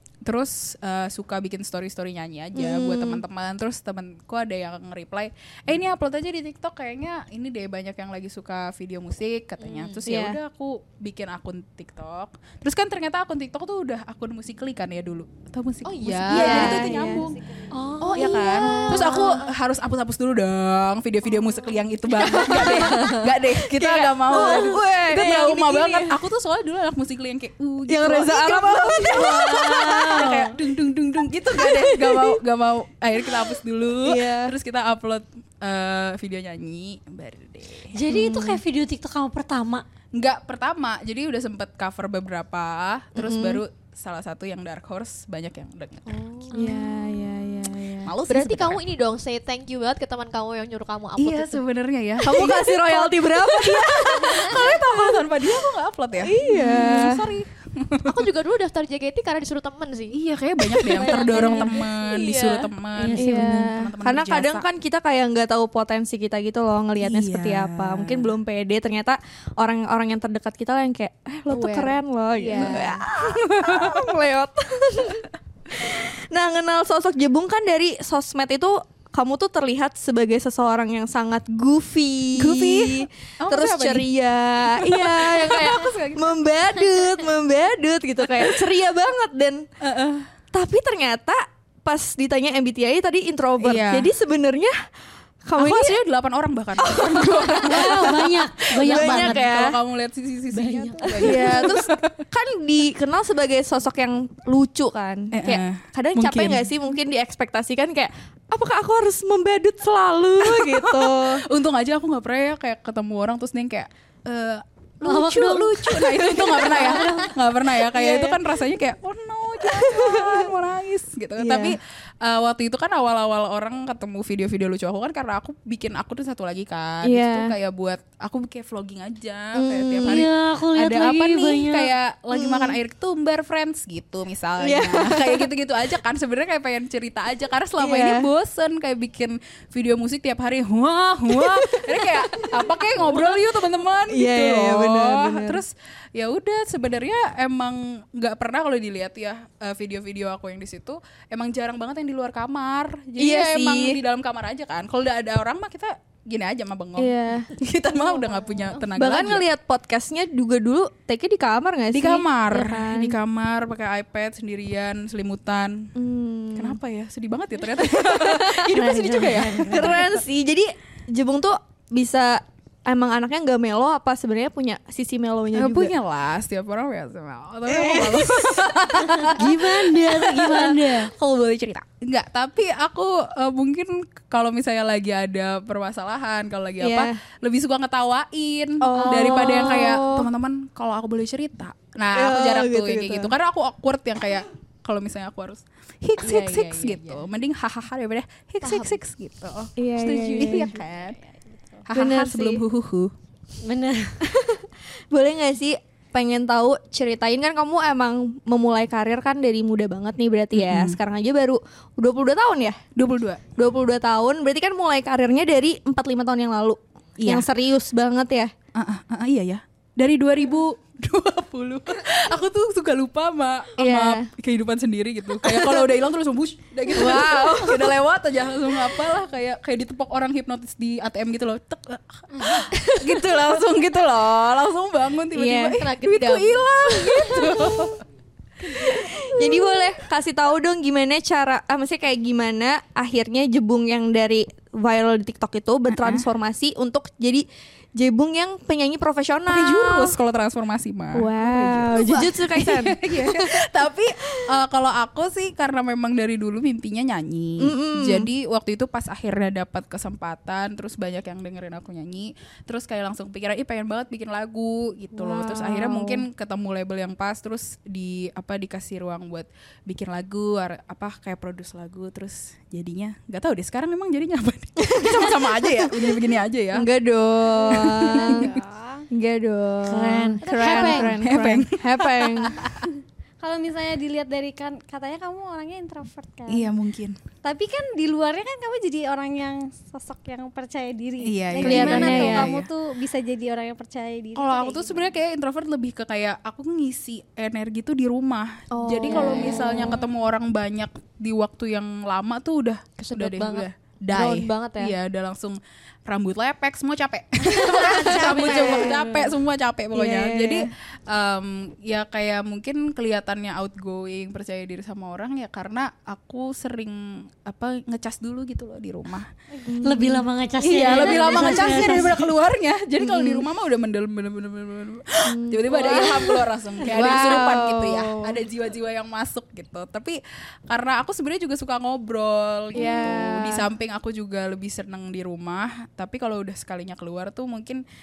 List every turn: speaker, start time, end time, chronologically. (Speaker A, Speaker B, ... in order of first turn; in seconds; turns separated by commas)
Speaker A: 0.2-17.4, Speaker B: 2.5-3.2, Speaker C: 9.6-10.0, Speaker B: 10.0-10.4, Speaker C: 15.8-17.0, Speaker B: 16.3-17.3, Speaker D: 16.7-17.9, Speaker E: 17.7-18.9, Speaker A: 18.0-38.0, Speaker C: 18.0-19.5, Speaker B: 22.2-26.2, Speaker C: 22.5-23.1, Speaker B: 27.9-30.4, Speaker E: 29.4-30.5, Speaker B: 31.4-32.4, Speaker B: 34.0-34.5, Speaker E: 37.9-39.8, Speaker B: 38.1-38.6, Speaker A: 40.1-46.1, Speaker B: 43.1-43.6, Speaker C: 46.0-46.9, Speaker B: 46.5-48.1, Speaker A: 48.0-48.8, Speaker C: 48.3-51.6, Speaker A: 51.2-58.2, Speaker B: 52.2-55.3, Speaker B: 56.2-57.4, Speaker C: 56.8-57.0, Speaker C: 58.0-60.2, Speaker A: 60.1-64.6, Speaker C: 60.8-62.7, Speaker B: 60.9-62.6, Speaker E: 63.0-63.7, Speaker B: 63.1-89.7, Speaker A: 67.0-68.3, Speaker C: 71.5-73.0, Speaker A: 72.5-74.1, Speaker A: 82.4-84.1, Speaker A: 84.7-86.4, Speaker A: 88.3-88.6, Speaker A: 89.8-90.3, Speaker B: 90.5-94.7, Speaker A: 93.6-94.1, Speaker B: 95.4-96.0, Speaker A: 95.6-102.2, Speaker B: 96.8-99.8, Speaker E: 97.6-99.5, Speaker E: 100.5-101.4, Speaker D: 100.8-101.1, Speaker B: 101.1-111.5, Speaker A: 105.3-106.7, Speaker A: 110.4-159.4, Speaker E: 115.0-117.3, Speaker B: 117.8-118.4, Speaker B: 119.6-120.5, Speaker B: 121.4-121.8, Speaker B: 127.0-127.5, Speaker B: 129.5-130.3, Speaker E: 130.1-131.9, Speaker B: 132.3-132.8, Speaker B: 134.6-135.5, Speaker B: 137.8-138.3, Speaker B: 141.3-143.4, Speaker B: 144.1-145.6, Speaker B: 153.2-154.0, Speaker B: 157.0-157.5, Speaker B: 158.8-163.2, Speaker A: 161.9-165.9, Speaker B: 165.9-166.8, Speaker A: 166.5-170.2, Speaker B: 167.8-168.6, Speaker E: 168.7-170.0, Speaker B: 169.7-175.9, Speaker A: 175.5-201.2, Speaker B: 177.7-178.8, Speaker E: 179.2-181.1, Speaker B: 186.8-187.2, Speaker B: 188.8-190.3, Speaker C: 189.0-189.2, Speaker B: 192.1-193.3, Speaker C: 196.2-197.2, Speaker C: 198.6-199.0, Speaker B: 199.8-200.7, Speaker D: 200.8-201.8, Speaker A: 201.9-203.1, Speaker B: 201.9-202.6, Speaker E: 203.6-204.2, Speaker B: 204.2-212.8, Speaker A: 210.5-211.0, Speaker A: 212.9-213.4, Speaker B: 213.6-218.5, Speaker A: 217.2-217.4, Speaker A: 218.7-238.0, Speaker B: 223.8-224.3, Speaker B: 225.4-225.9, Speaker B: 226.9-228.0, Speaker B: 232.7-233.4, Speaker B: 235.3-235.8, Speaker C: 235.7-237.8, Speaker A: 238.7-239.7, Speaker B: 238.7-250.2, Speaker A: 245.9-246.2, Speaker A: 249.5-276.9, Speaker B: 251.1-254.4, Speaker B: 257.6-258.3, Speaker B: 265.1-266.3, Speaker B: 274.9-276.0, Speaker B: 276.7-278.5, Speaker D: 277.6-279.1, Speaker A: 277.7-278.5, Speaker B: 279.1-282.6, Speaker E: 279.9-281.1, Speaker D: 280.4-281.1, Speaker A: 281.1-282.8, Speaker D: 283.4-286.7, Speaker A: 286.5-287.2, Speaker D: 287.4-295.1, Speaker A: 291.2-292.7, Speaker B: 291.6-292.6, Speaker A: 294.4-319.3, Speaker B: 298.8-300.0, Speaker C: 298.9-300.0, Speaker C: 303.0-304.9, Speaker E: 307.8-309.0, Speaker C: 307.9-308.9, Speaker B: 308.0-309.0, Speaker B: 309.9-310.7, Speaker B: 319.6-320.3, Speaker E: 319.8-322.3, Speaker A: 320.6-337.8, Speaker B: 320.8-321.8, Speaker B: 323.0-323.5, Speaker B: 325.2-328.4, Speaker C: 326.9-327.5, Speaker B: 332.7-333.7